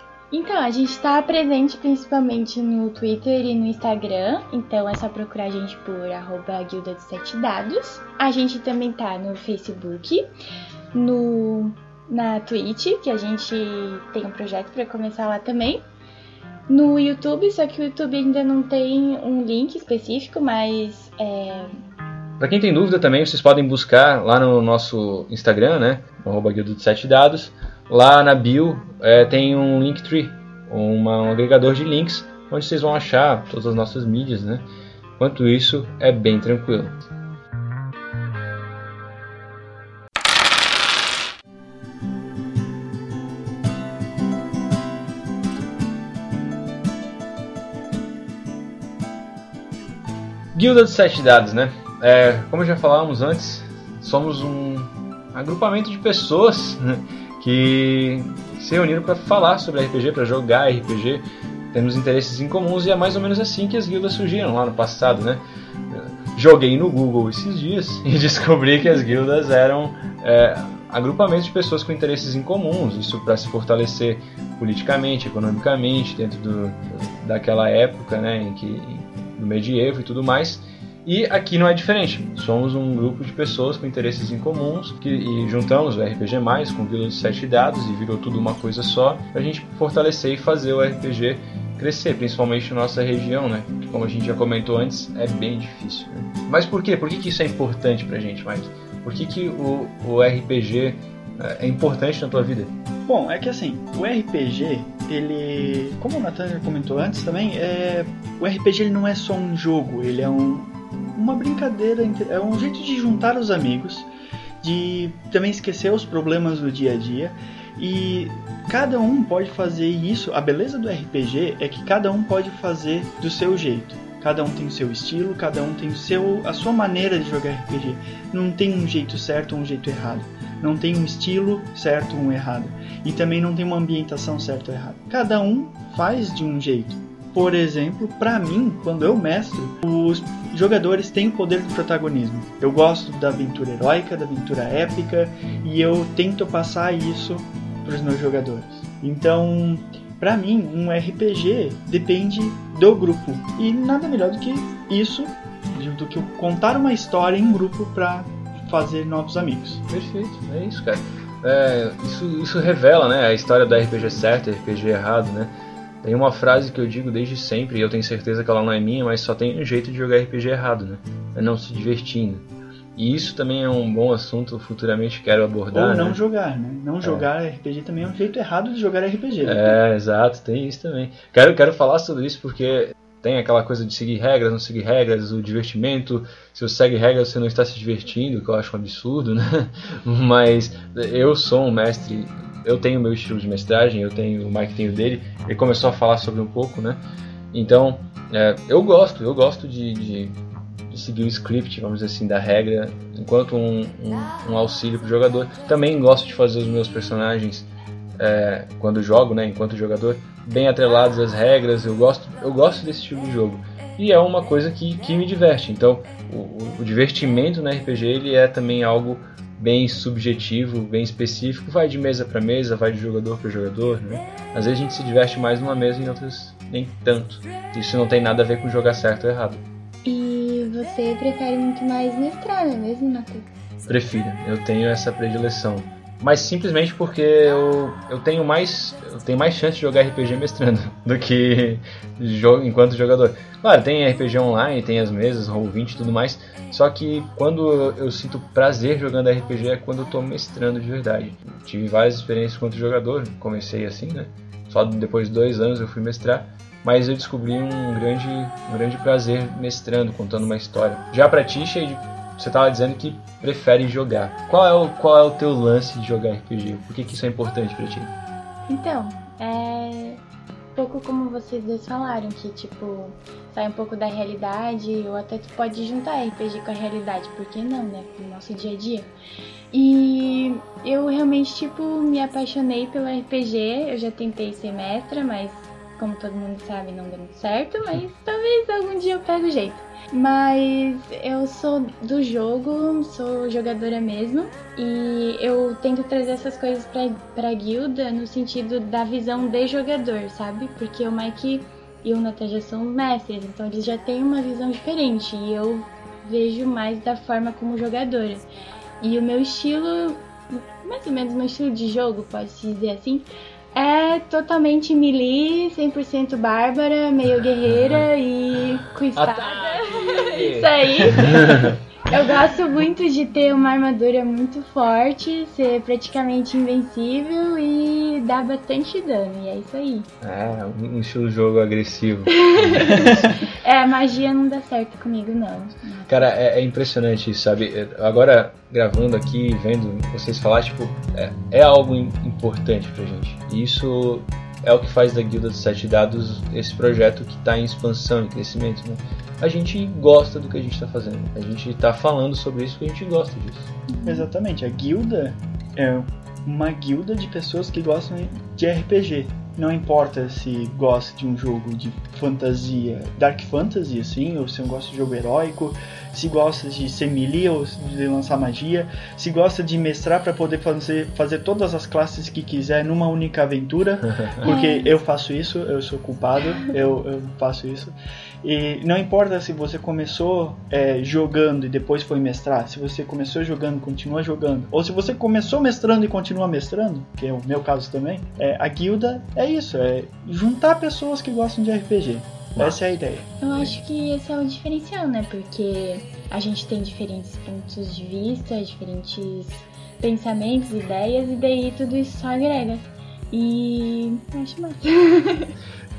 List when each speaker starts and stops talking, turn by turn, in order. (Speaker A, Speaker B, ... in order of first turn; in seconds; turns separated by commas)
Speaker A: 0.3-10.3, Speaker A: 10.9-15.8, Speaker A: 16.7-21.8, Speaker B: 22.4-34.6, Speaker B: 35.2-37.0, Speaker B: 50.5-102.7, Speaker C: 103.0-114.1, Speaker C: 114.6-159.8, Speaker B: 159.9-176.2, Speaker C: 175.7-179.8, Speaker B: 177.0-177.3, Speaker B: 179.4-197.0, Speaker B: 197.5-200.3, Speaker B: 200.9-229.6, Speaker A: 230.0-233.5, Speaker B: 233.8-268.1, Speaker A: 268.7-270.2, Speaker A: 270.7-279.1, Speaker A: 279.7-308.4, Speaker A: 309.0-330.1, Speaker B: 319.1-321.8, Speaker B: 330.2-333.2, Speaker A: 332.5-336.3, Speaker B: 336.1-353.7, Speaker A: 353.9-354.3, Speaker C: 354.1-393.7, Speaker B: 374.0-374.4, Speaker A: 374.4-374.9, Speaker B: 392.6-392.8, Speaker A: 393.4-405.5